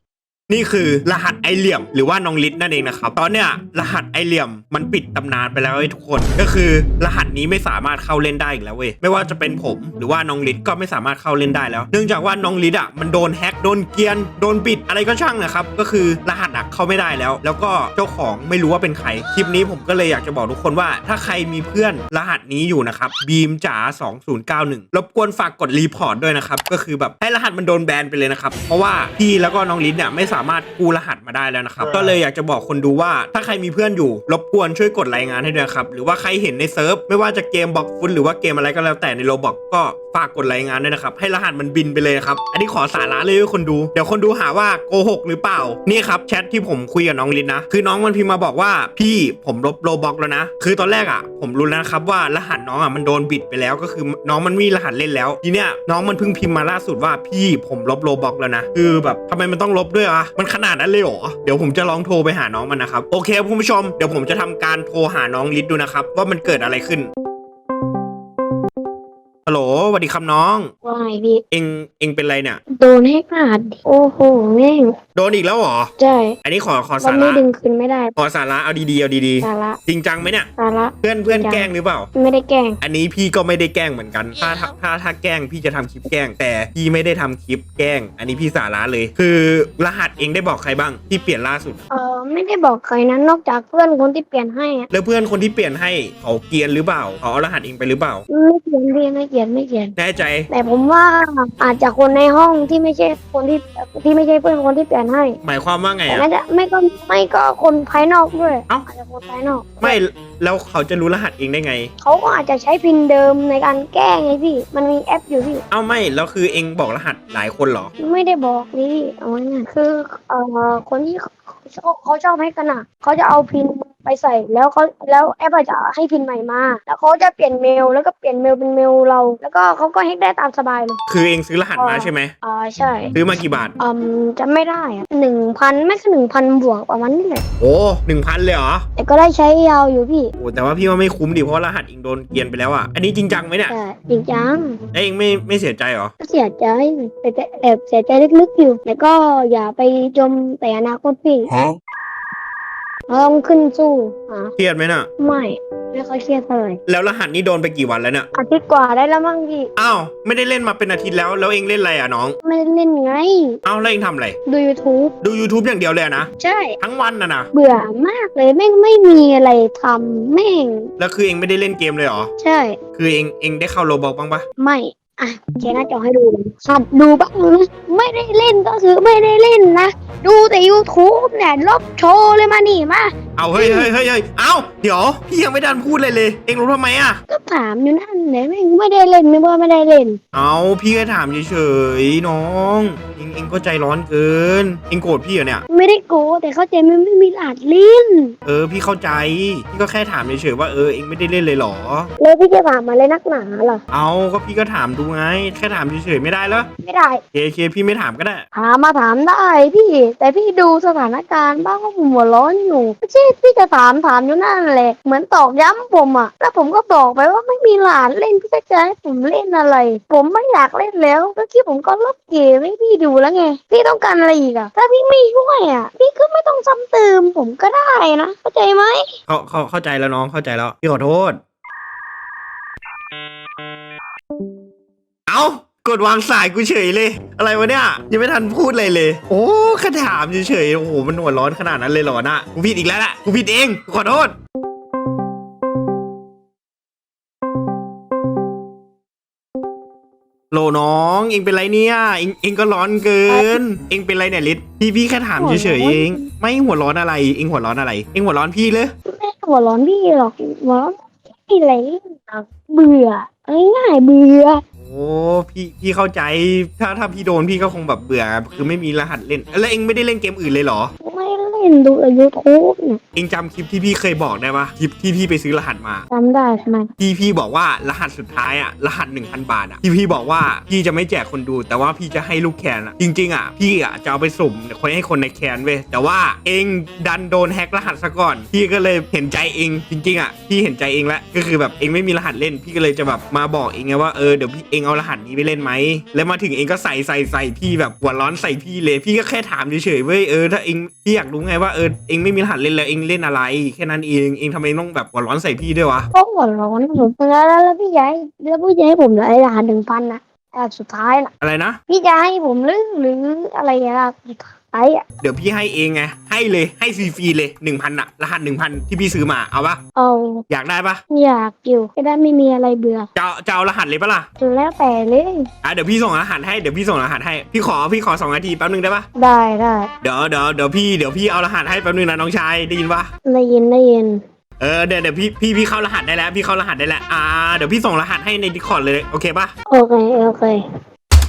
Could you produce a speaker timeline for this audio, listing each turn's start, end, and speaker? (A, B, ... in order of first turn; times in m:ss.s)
0:00.5-1:07.1 A
1:09.4-1:10.7 A
1:10.8-1:11.4 B
1:11.5-1:12.6 A
1:12.7-1:14.9 B
1:15.1-1:15.9 A
1:16.0-1:16.4 B
1:16.4-1:17.4 A
1:17.0-1:18.1 B
1:18.2-1:20.5 A
1:19.4-1:19.8 B
1:20.6-1:22.8 B
1:21.0-1:22.1 A
1:22.8-1:31.8 A
1:31.9-1:34.9 B
1:34.9-1:38.2 A
1:38.3-1:39.9 B
1:40.0-1:40.5 A
1:40.5-1:45.4 B
1:45.4-1:46.3 A
1:46.1-1:50.0 B
1:49.8-1:51.9 A
1:52.0-1:55.6 B
1:55.7-1:57.9 A
1:58.0-2:11.0 B
2:11.1-2:12.3 A
2:11.8-2:13.1 B
2:13.1-2:13.7 A
2:13.8-2:17.4 B
2:17.6-2:18.8 A
2:19.0-2:20.3 B
2:20.4-2:23.7 A
2:23.7-2:24.7 B
2:24.9-2:26.1 A
2:26.2-2:31.5 B
2:33.1-2:34.5 B
2:34.6-2:35.1 A
2:35.2-2:36.8 B
2:36.9-2:38.3 A
2:38.3-2:39.7 B
2:39.8-2:42.4 A
2:42.4-2:43.6 B
2:43.6-2:44.4 A
2:44.5-2:45.1 B
2:45.2-2:46.3 A
2:46.4-2:46.8 B
2:46.8-2:47.5 A
2:47.5-2:50.9 B
2:51.0-2:52.3 A
2:52.4-2:52.8 B
2:53.0-2:54.4 A
2:54.6-3:03.9 B
3:03.4-3:07.2 A
3:07.3-3:10.2 B
3:10.3-3:15.6 A
3:15.7-3:18.3 B
3:18.4-3:22.1 A
3:22.2-3:23.8 B
3:23.9-3:26.7 A
3:26.8-3:27.2 B
3:27.3-3:28.4 A
3:28.5-3:49.0 B
3:49.3-3:51.4 A
3:55.3-4:04.3 A
4:10.5-4:18.9 A
4:13.3-4:13.6 B
4:15.4-4:16.2 B
4:19.1-4:24.6 B
4:24.8-4:30.9 A
4:31.0-4:33.0 B
4:33.1-4:36.0 A
4:36.1-4:36.9 B
4:37.0-5:06.1 A
5:06.1-5:11.3 B
5:11.4-5:11.8 A
5:11.9-5:15.0 B
5:15.2-5:19.8 A
5:20.0-5:20.4 B
5:20.5-5:21.0 A
5:21.1-5:23.1 B
5:23.1-5:24.3 A
5:24.4-5:25.4 B
5:25.6-5:29.0 A
5:29.2-5:29.9 B
5:30.0-5:33.1 A
5:33.2-5:34.2 B
5:34.6-5:39.5 A
5:39.7-5:40.6 B